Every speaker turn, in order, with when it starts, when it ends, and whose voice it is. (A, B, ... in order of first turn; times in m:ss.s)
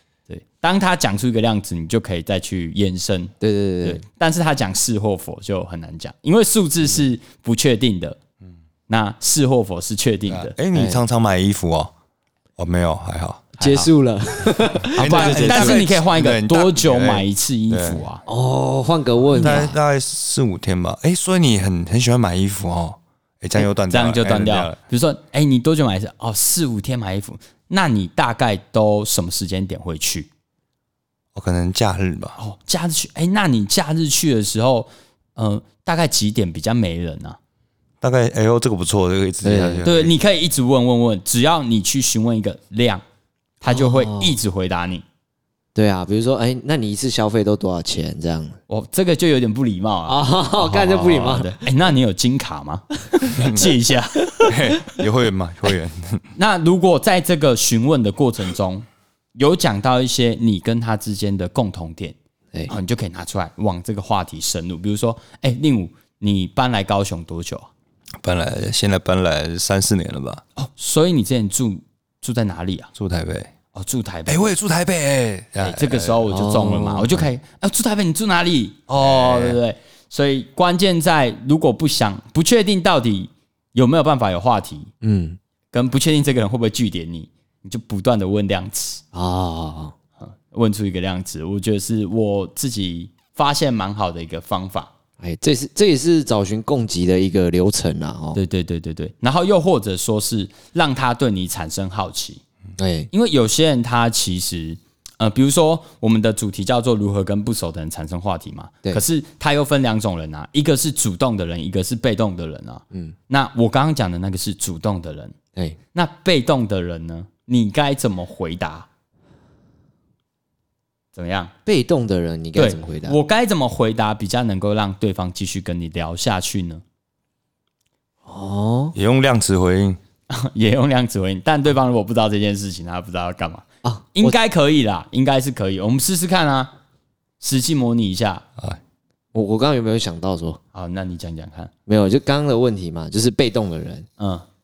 0:00.3-0:08.2 A
0:03.4-0:04.0 B
0:08.9-0:10.5 A
0:10.3-0:11.9 C
0:10.7-0:11.0 B
0:12.6-0:13.7 C
0:13.6-0:15.8 B
0:14.8-0:18.0 C
0:14.9-0:18.2 A
0:18.3-0:19.8 B
0:19.4-0:24.8 C
0:19.4-0:19.7 A
0:23.6-0:30.3 A
0:31.3-0:32.4 C
0:32.4-0:37.4 A
0:38.0-0:40.1 C
0:39.4-0:39.9 B
0:39.8-0:43.0 A
0:43.6-0:45.0 A
0:43.7-0:44.4 B
0:45.8-0:48.6 B
0:48.7-0:54.7 A
0:50.1-0:51.5 B
0:53.4-0:53.7 C
0:54.4-0:56.3 C
0:56.4-0:58.8 A
0:59.4-1:02.2 A
1:02.7-1:07.7 A
1:08.2-1:10.4 C
1:10.6-1:12.9 A
1:13.0-1:13.5 C
1:13.7-1:14.5 A
1:14.3-1:16.2 C
1:15.6-1:24.9 A
1:16.3-1:17.2 B
1:19.0-1:19.6 C
1:25.0-1:25.4 B
1:25.7-1:29.0 A
1:29.1-1:30.0 B
1:30.2-1:34.9 A
1:35.2-1:38.4 B
1:38.4-1:42.4 A
1:42.8-1:43.1 B
1:43.1-1:55.4 A
1:55.9-1:58.9 A
2:01.2-2:01.5 A
2:01.7-2:03.2 B
2:02.6-2:06.8 A
2:08.3-2:09.0 B
2:09.0-2:10.0 C
2:10.3-2:16.7 A
2:13.8-2:14.4 B
2:17.4-2:18.4 A
2:19.3-2:20.6 B
2:20.7-2:21.7 A
2:21.9-2:24.1 B
2:24.2-2:24.4 A